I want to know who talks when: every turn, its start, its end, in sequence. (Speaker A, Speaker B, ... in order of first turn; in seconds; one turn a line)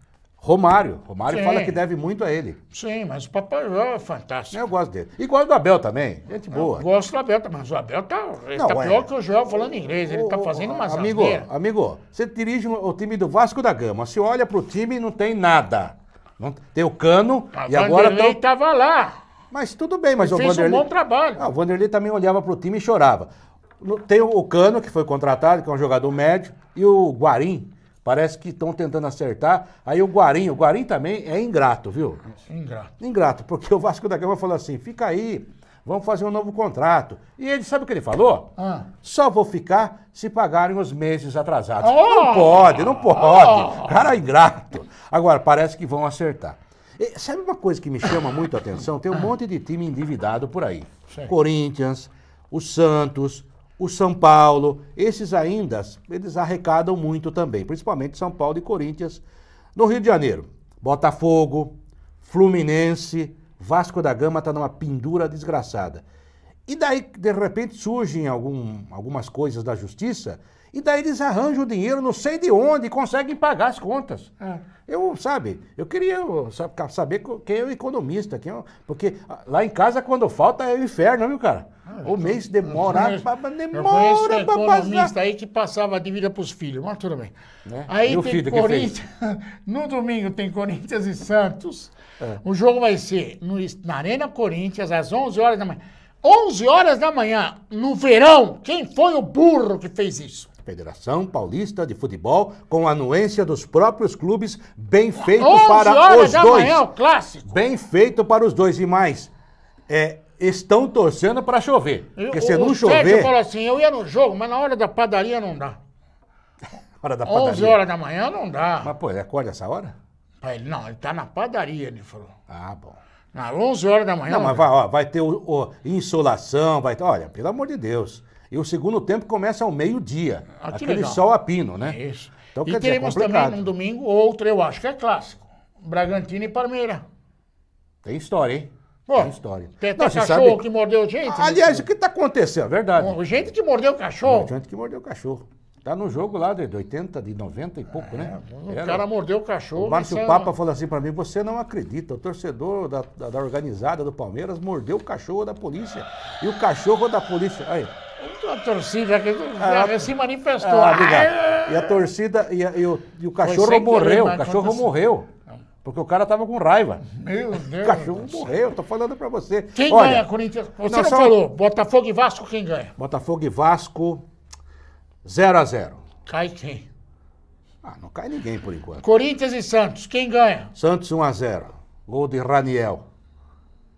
Speaker A: 0.4-2.6
Speaker B: 1.3-1.8
Speaker B: 2.7-4.6
Speaker A: 4.5-6.9
Speaker B: 6.5-11.5
Speaker A: 8.6-9.1
Speaker A: 9.9-18.4
Speaker B: 17.5-19.2
Speaker A: 19.5-32.2
Speaker B: 20.2-21.5
Speaker B: 32.5-32.9
Speaker A: 33.0-38.5
Speaker B: 38.6-38.9
Speaker A: 39.0-59.2
Speaker B: 41.8-44.1
Speaker A: 59.8-66.0
Speaker A: 66.7-74.3
Speaker A: 74.9-85.1
Speaker B: 81.9-87.3
Speaker A: 87.7-88.9
Speaker B: 87.9-100.5
Speaker A: 100.7-106.9
Speaker B: 105.3-107.6
Speaker A: 107.5-109.3
Speaker A: 109.9-113.3
Speaker B: 112.2-115.8
Speaker A: 117.0-117.8
Speaker B: 117.2-118.9
Speaker A: 118.8-120.0
Speaker B: 120.4-122.3
Speaker A: 122.5-123.0
Speaker B: 123.3-124.7
Speaker A: 124.3-132.0
Speaker B: 130.6-131.2
Speaker B: 131.8-137.1
Speaker A: 132.5-133.6
Speaker A: 138.0-140.6
Speaker B: 139.1-141.9
Speaker A: 141.2-143.3
Speaker B: 143.0-144.5
Speaker A: 144.2-149.0
Speaker B: 148.0-150.5
Speaker A: 149.8-157.9
Speaker B: 158.2-162.1
Speaker A: 159.6-165.3
Speaker B: 163.4-164.9
Speaker A: 165.8-167.1
Speaker B: 167.0-168.5
Speaker A: 167.6-170.3
Speaker B: 169.8-172.9
Speaker A: 170.9-171.4
Speaker A: 173.0-174.2
Speaker A: 175.2-176.0
Speaker B: 176.3-176.9
Speaker A: 177.8-179.0
Speaker B: 179.0-180.7
Speaker A: 180.8-183.0